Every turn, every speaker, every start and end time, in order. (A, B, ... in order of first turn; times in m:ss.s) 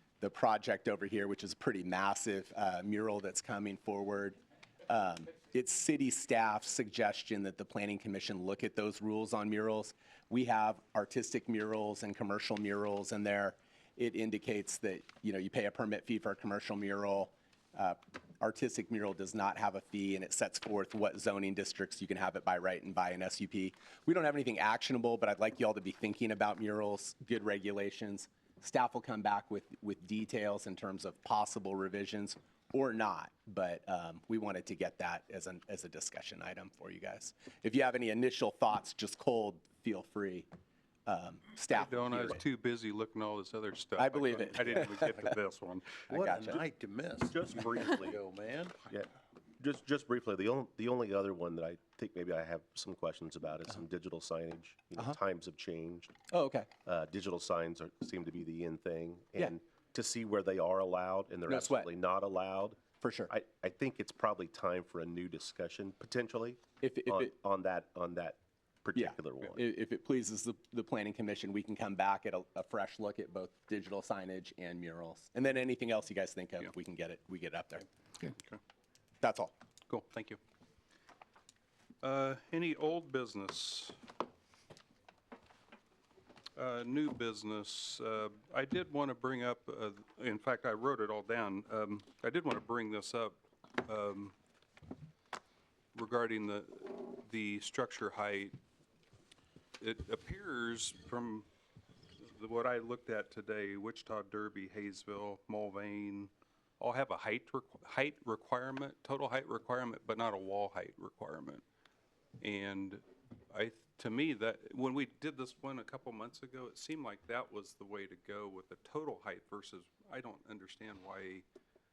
0:00.2-0:40.5 A
0:41.1-0:42.4 A
0:41.7-0:46.0 B
0:44.0-0:45.3 A
0:46.1-0:46.6 A
0:46.1-0:48.8 C
0:47.2-0:48.2 D
0:48.8-0:56.2 D
0:56.3-0:56.7 A
0:56.9-1:09.6 D
1:01.5-1:01.9 A
1:03.0-1:03.3 A
1:06.8-1:07.4 A
1:09.0-1:17.9 A
1:18.3-1:18.6 B
1:19.2-1:19.5 A
1:19.9-1:20.4 B
1:22.0-1:24.0 B
1:26.6-1:34.4 B
1:36.0-1:38.6 B
1:39.8-1:41.5 B
1:42.2-1:51.6 B
1:52.4-2:01.4 B